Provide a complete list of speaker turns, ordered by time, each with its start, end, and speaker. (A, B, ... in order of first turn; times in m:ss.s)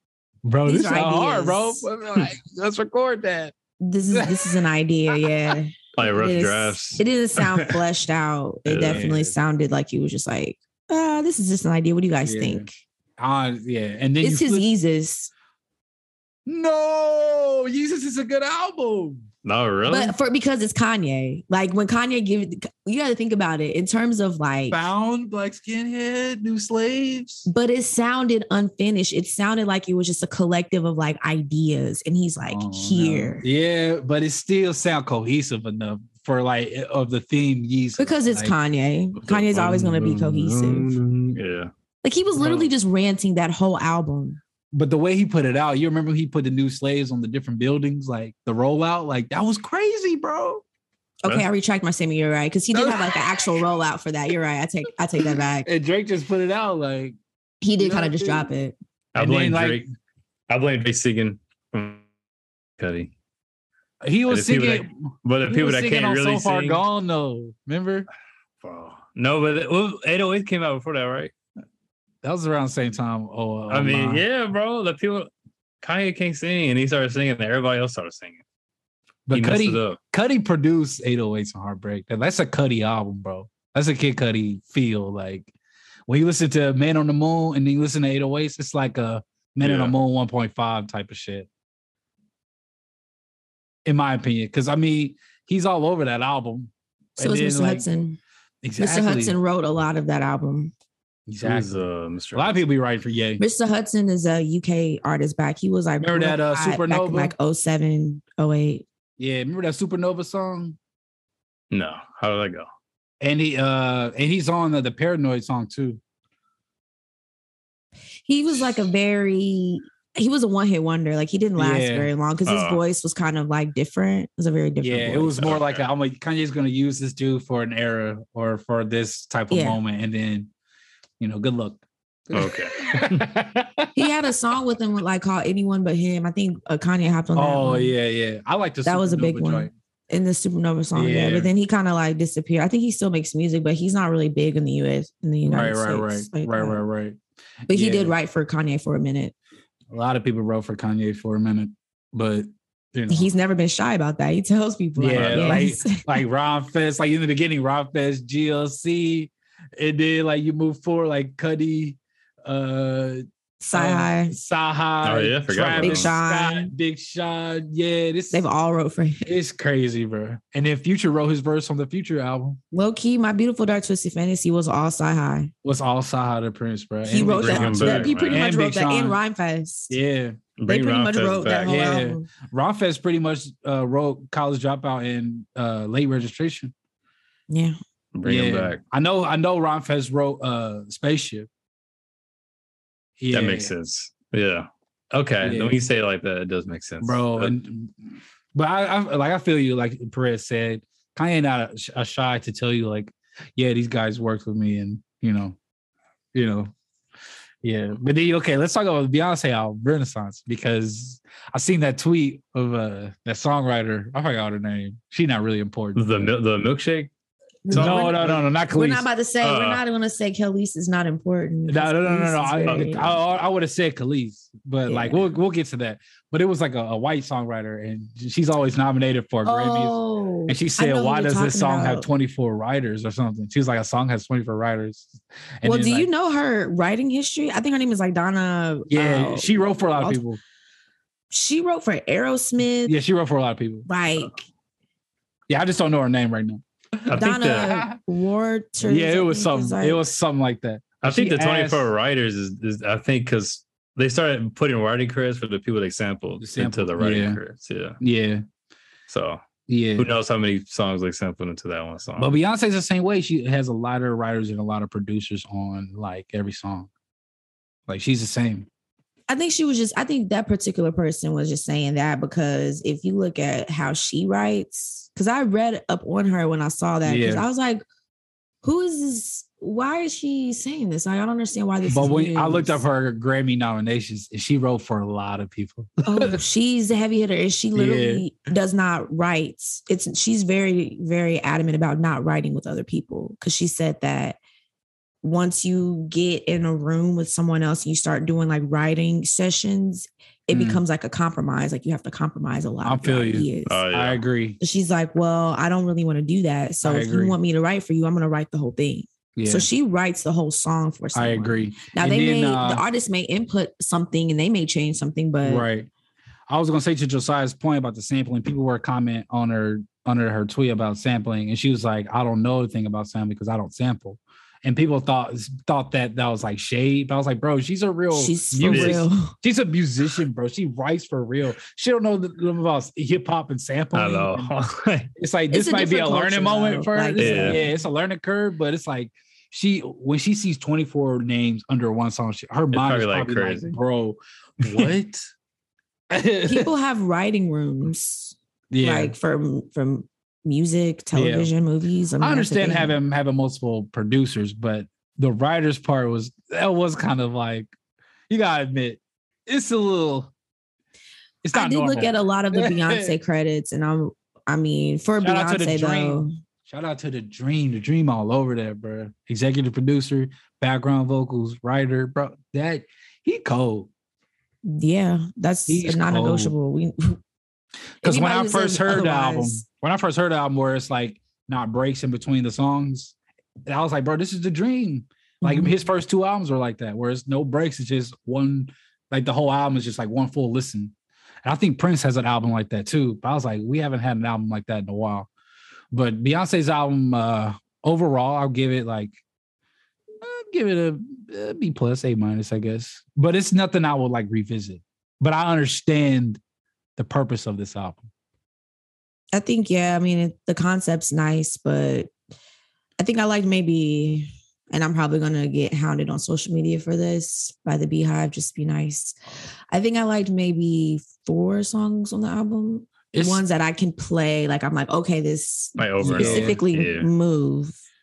0:00.4-0:03.5 A
0:00.7-0:01.9 B
0:03.8-0:12.7 B
0:04.1-0:05.6 A
0:06.0-0:07.8 C
0:08.7-0:09.0 C
0:08.8-0:09.3 A
0:12.2-0:12.7 A
0:13.2-0:14.6 A
0:14.2-0:15.3 B
0:16.5-0:19.2 A
0:19.4-0:20.2 C
0:19.9-0:24.8 B
0:24.7-0:27.5 A
0:27.5-0:33.5 B
0:32.5-0:38.6 A
0:38.0-0:40.9 B
0:39.3-0:41.7 C
0:39.6-0:40.3 A
0:42.0-0:44.4 B
0:42.4-0:42.7 A
0:44.7-0:50.6 A
0:51.2-0:55.7 B
0:52.7-0:53.6 A
0:55.6-0:57.2 A
0:57.6-0:58.8 B
0:57.8-0:58.5 A
0:59.1-0:59.8 C
0:59.2-0:59.9 A
1:00.5-1:02.0 C
1:02.8-1:03.1 C
1:04.0-1:08.1 A
1:04.3-1:06.8 C
1:08.6-1:11.3 C
1:12.2-1:14.2 A
1:13.7-1:15.3 C
1:15.8-1:18.4 C
1:19.3-1:25.5 A
1:19.3-1:20.0 C
1:26.1-1:31.5 A
1:29.6-1:30.0 C
1:33.8-1:37.8 A
1:37.2-1:38.2 B
1:38.6-1:39.4 A
1:38.8-1:40.7 B
1:41.3-1:43.4 A
1:41.4-1:42.6 C
1:43.4-1:48.8 B
1:46.0-1:47.3 A
1:49.2-1:50.8 A
1:51.7-1:52.7 C
1:53.2-1:56.0 A
1:58.2-2:05.5 B
2:01.6-2:02.1 A
2:02.5-2:02.8 C
2:04.8-2:10.5 A
2:05.4-2:05.8 C
2:09.5-2:09.8 B
2:11.2-2:14.0 A
2:12.3-2:13.3 C
2:14.0-2:18.0 B
2:17.4-2:19.7 A
2:18.8-2:26.8 B
2:21.0-2:21.5 A
2:25.5-2:28.1 A
2:27.7-2:29.3 B
2:29.9-2:33.3 A
2:33.1-2:36.1 B
2:35.0-2:48.4 A
2:35.2-2:35.7 C
2:43.6-2:44.4 B
2:45.0-2:46.1 C
2:45.8-2:46.7 B
2:48.3-2:49.3 B
2:49.2-2:52.6 A
2:52.7-2:55.5 B
2:55.6-2:59.2 A
2:57.1-3:00.0 B
2:57.1-2:58.4 C
2:59.9-3:00.4 A
3:00.6-3:01.8 C
3:00.7-3:02.3 B
3:01.7-3:06.7 A
3:07.5-3:07.8 B
3:08.2-3:08.8 C
3:08.2-3:11.5 A
3:13.2-3:13.7 A
3:13.3-3:17.5 C
3:15.4-3:15.8 A
3:17.0-3:25.6 A
3:26.3-3:26.7 A
3:27.6-3:36.3 A
3:36.0-3:37.1 C
3:37.6-3:43.2 B
3:37.7-3:38.4 C
3:37.7-3:39.1 A
3:39.4-3:39.8 C
3:41.7-3:55.1 A
3:44.9-3:45.2 B
3:49.4-3:52.1 B
3:55.6-3:56.1 A
3:55.6-4:00.2 B
3:58.9-4:00.4 A
4:01.3-4:03.0 B
4:02.8-4:03.9 A
4:03.9-4:04.5 B
4:05.5-4:08.0 A
4:07.1-4:07.8 C
4:07.1-4:10.0 B
4:08.8-4:11.9 A
4:11.0-4:18.0 C
4:16.4-4:17.4 A
4:18.0-4:18.4 A
4:19.1-4:19.4 C
4:19.7-4:20.1 A
4:20.0-4:22.4 C
4:22.2-4:26.9 A
4:27.9-4:28.7 A
4:29.3-4:37.8 B
4:37.0-4:37.5 A
4:38.6-4:42.8 B
4:41.9-4:46.4 A
4:46.0-4:54.4 B
4:47.7-4:48.2 A
4:55.2-5:03.8 B
5:00.5-5:00.8 A
5:02.8-5:04.6 A
5:03.7-5:04.2 C
5:04.6-5:15.6 B
5:06.8-5:07.4 A
5:09.4-5:09.7 A
5:11.1-5:12.8 A
5:15.4-5:15.9 A
5:16.5-5:34.5 A
5:28.1-5:29.3 B
5:28.6-5:29.0 C
5:33.9-5:35.1 C
5:35.2-5:45.3 A
5:35.5-5:37.7 B
5:37.2-5:37.6 C
5:42.7-5:43.8 C
5:44.6-5:44.9 C
5:46.1-5:46.7 A
5:46.4-5:53.0 B
5:48.7-5:49.2 A
5:51.1-5:51.5 A
5:52.2-5:57.7 A
5:58.3-6:00.3 A
6:01.4-6:03.2 A
6:01.5-6:06.3 B
6:05.2-6:13.9 A
6:14.6-6:17.2 B
6:15.7-6:16.5 A
6:18.0-6:19.6 B
6:18.0-6:23.2 A
6:23.7-6:30.9 A
6:25.4-6:25.8 B
6:31.4-6:35.3 A
6:35.9-6:39.1 A
6:40.2-6:46.4 A
6:47.0-6:48.1 A
6:49.3-6:52.1 B
6:53.0-6:59.2 B
6:59.7-7:07.8 B
7:03.1-7:03.4 A
7:05.8-7:07.1 C
7:06.0-7:06.6 A